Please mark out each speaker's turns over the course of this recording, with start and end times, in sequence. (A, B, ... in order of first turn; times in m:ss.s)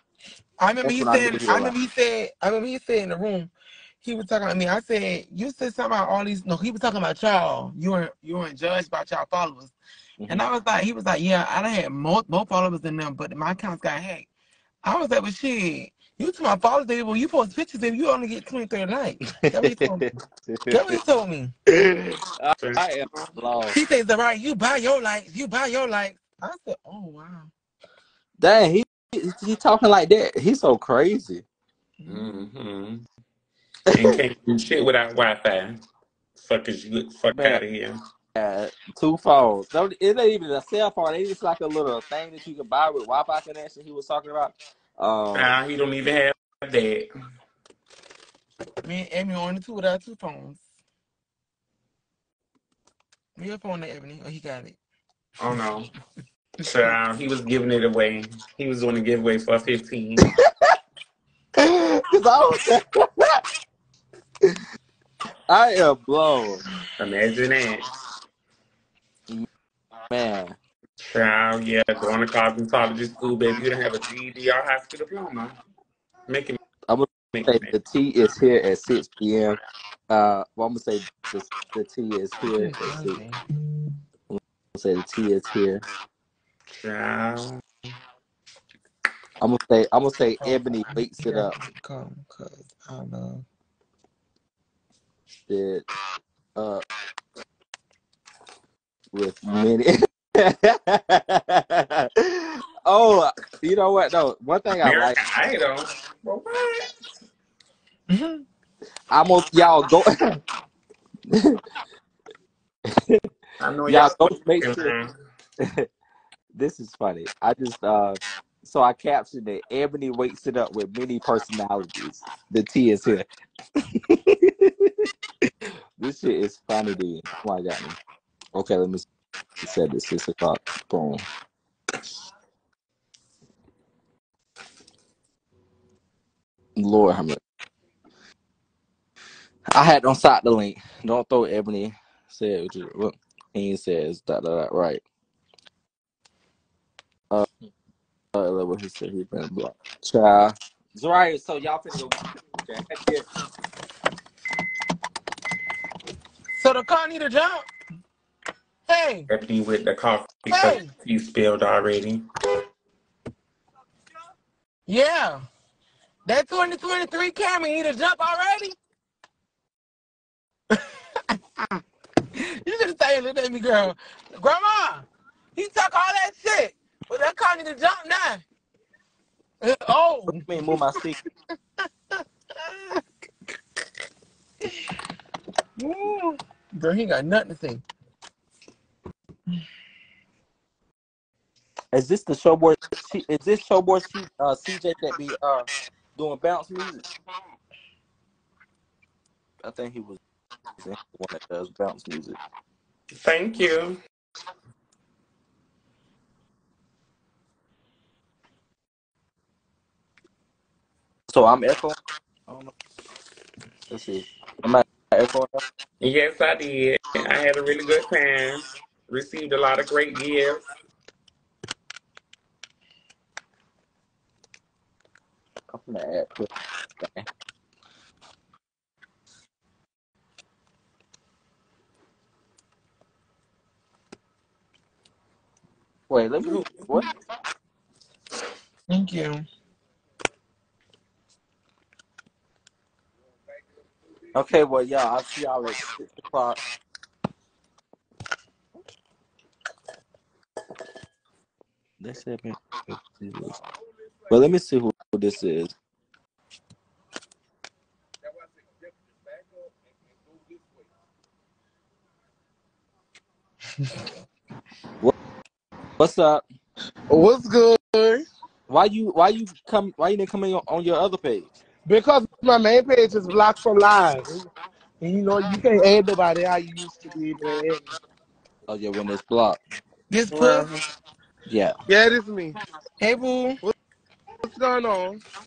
0:00.6-0:09.7 A
0:00.8-0:01.8 B
0:10.3-0:14.3 A
0:14.8-0:20.0 A
0:19.4-0:21.0 B
0:20.7-0:21.5 A
0:21.7-0:23.8 B
0:22.6-0:23.4 C
0:23.7-0:27.5 A
0:28.4-0:31.4 B
0:32.1-0:33.0 C
0:33.9-0:34.2 B
0:33.9-0:35.8 C
0:36.4-0:38.0 C
0:37.3-0:37.6 B
0:38.4-0:45.6 B
0:45.3-0:47.1 C
0:48.8-0:50.6 A
0:53.4-0:54.8 A
0:55.4-0:55.9 C
0:56.7-1:00.3 C
1:01.6-1:03.4 B
1:05.5-1:06.6 B
1:07.0-1:07.8 C
1:10.1-1:10.6 B
1:11.0-1:15.6 C
1:16.3-1:16.6 C
1:16.9-1:19.6 B
1:17.3-1:17.7 C
1:20.1-1:23.2 B
1:22.5-1:23.4 A
1:24.3-1:25.8 B
1:26.7-1:27.6 C
1:29.4-1:31.6 B
1:30.4-1:33.4 A
1:35.5-1:35.9 B
1:36.6-1:36.8 B
1:39.1-1:45.2 B
1:44.8-1:46.9 C
1:48.1-1:48.4 A
1:49.1-1:50.4 B
1:51.3-1:51.6 B
1:52.9-1:53.2 B
1:53.6-1:55.1 C
1:53.9-1:54.9 B
1:55.6-1:55.9 B
1:56.5-2:03.2 B
2:04.0-2:05.1 B
2:06.0-2:08.0 B
2:08.5-2:09.1 B
2:09.6-2:11.2 B
2:16.8-2:17.4 B
2:19.7-2:25.0 B
2:28.3-2:33.3 B
2:36.5-2:37.7 A
2:38.9-2:39.3 A
2:39.3-2:42.2 C
2:40.5-2:40.9 A
2:44.9-2:45.4 A
2:46.3-2:48.8 A
2:51.3-2:51.8 A
2:52.3-2:58.4 A
2:59.6-3:00.7 A
3:00.3-3:01.2 B
3:02.6-3:03.0 A
3:05.8-3:07.8 A
3:11.9-3:17.0 B
3:19.6-3:20.2 B
3:20.8-3:22.4 B
3:23.1-3:24.0 C
3:31.3-3:32.0 B
3:33.9-3:35.6 B
3:36.0-3:40.6 C
3:45.7-3:46.5 B
3:47.0-3:47.3 B
3:56.1-3:57.1 B
3:58.9-3:59.4 A
4:04.3-4:06.6 B
4:12.0-4:13.6 B
4:14.3-4:15.7 B
4:26.0-4:26.4 B
4:27.1-4:28.2 D
4:28.7-4:31.5 B
4:31.9-4:34.4 D
4:35.0-4:37.9 D
4:38.7-4:39.6 B
4:40.1-4:40.7 A
4:40.3-4:40.7 D
4:41.5-4:41.7 B
4:41.9-4:42.6 D
4:43.0-4:43.6 A
4:44.4-4:45.2 D